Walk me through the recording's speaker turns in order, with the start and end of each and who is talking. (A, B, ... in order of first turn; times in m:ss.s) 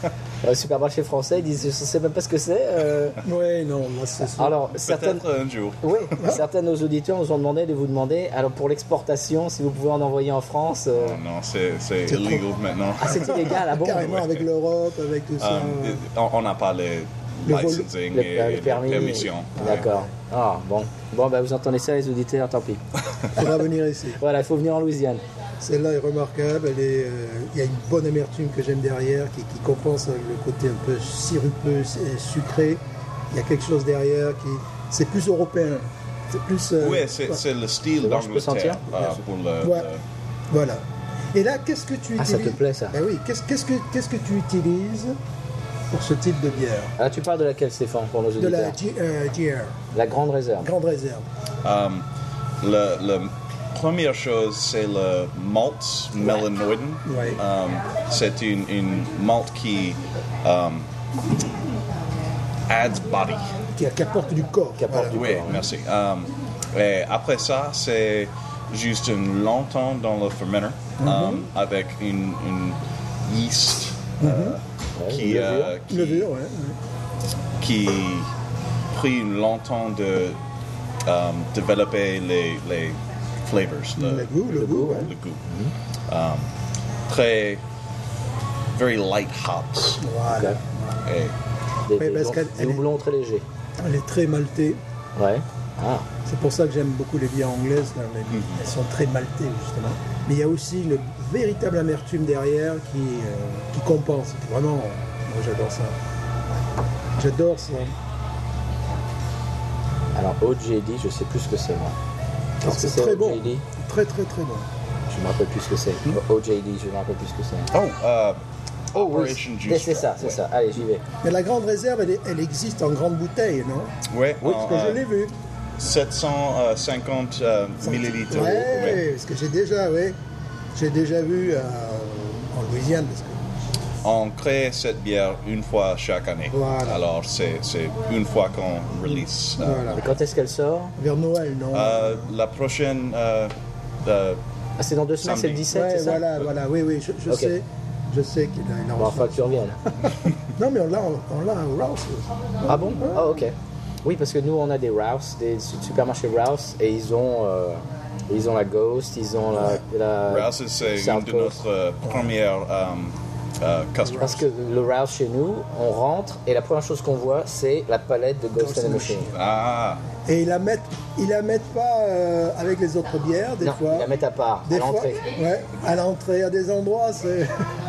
0:00.4-0:03.2 A
0:03.2-0:04.6 B
0:04.4-0:05.2 A
0:04.8-0:06.3 C
0:05.8-0:11.2 A
0:10.9-0:14.5 C
0:12.1-0:12.4 B
0:13.0-0:14.1 A
0:13.1-0:16.0 B
0:15.4-0:19.9 C
0:17.5-0:17.9 B
0:18.1-0:22.8 A
0:19.6-0:20.1 B
0:23.4-0:24.2 B
0:24.2-0:25.2 A
0:25.6-0:37.4 B
0:36.8-0:40.0 C
0:38.0-0:39.2 A
0:39.6-0:39.9 B
0:40.5-0:45.2 B
0:42.2-0:43.0 A
0:45.9-0:46.9 B
0:47.0-0:48.8 A
0:48.4-0:49.8 B
0:49.9-0:50.7 A
0:50.6-0:51.3 B
0:51.6-0:52.1 C
0:52.6-1:00.9 C
0:57.0-0:57.4 B
1:02.7-1:03.6 C
1:03.7-1:05.2 B
1:04.8-1:05.6 A
1:05.1-1:16.3 C
1:11.0-1:11.5 B
1:14.2-1:14.6 B
1:15.0-1:15.8 A
1:15.9-1:16.8 B
1:17.6-1:18.3 C
1:18.9-1:20.4 C
1:21.0-1:25.4 C
1:24.0-1:25.1 B
1:24.5-1:25.7 A
1:26.1-1:26.5 C
1:27.1-1:27.6 C
1:28.7-1:30.0 C
1:30.0-1:31.1 B
1:30.3-1:30.6 A
1:31.1-1:31.3 C
1:31.9-1:33.4 A
1:31.9-1:32.9 B
1:33.8-1:34.8 B
1:35.2-1:36.1 A
1:36.3-1:46.0 B
1:38.3-1:38.6 C
1:47.2-1:48.0 B
1:50.2-1:52.0 A
1:52.6-1:54.7 B
1:52.6-1:53.6 A
1:55.1-1:57.7 A
1:57.7-1:58.4 C
1:58.9-2:00.4 C
1:59.0-2:01.0 A
2:01.2-2:05.4 B
2:04.1-2:05.0 C
2:05.8-2:09.0 C
2:07.8-2:10.2 B
2:10.8-2:13.4 B
2:14.0-2:20.1 C
2:16.5-2:17.0 B
2:19.6-2:20.0 B
2:20.0-2:20.9 A
2:21.0-2:22.3 B
2:21.7-2:24.4 C
2:24.8-2:26.2 A
2:25.2-2:25.7 C
2:25.7-2:33.5 B
2:27.3-2:27.6 A
2:29.0-2:29.8 A
2:32.6-2:41.6 A
2:40.3-2:44.4 C
2:42.0-2:42.3 B
2:44.0-2:44.4 B
2:44.2-2:49.3 A
2:48.6-2:49.4 B
2:49.3-2:50.0 C
2:50.3-2:54.1 B
2:53.6-2:55.3 A
2:54.7-2:57.7 B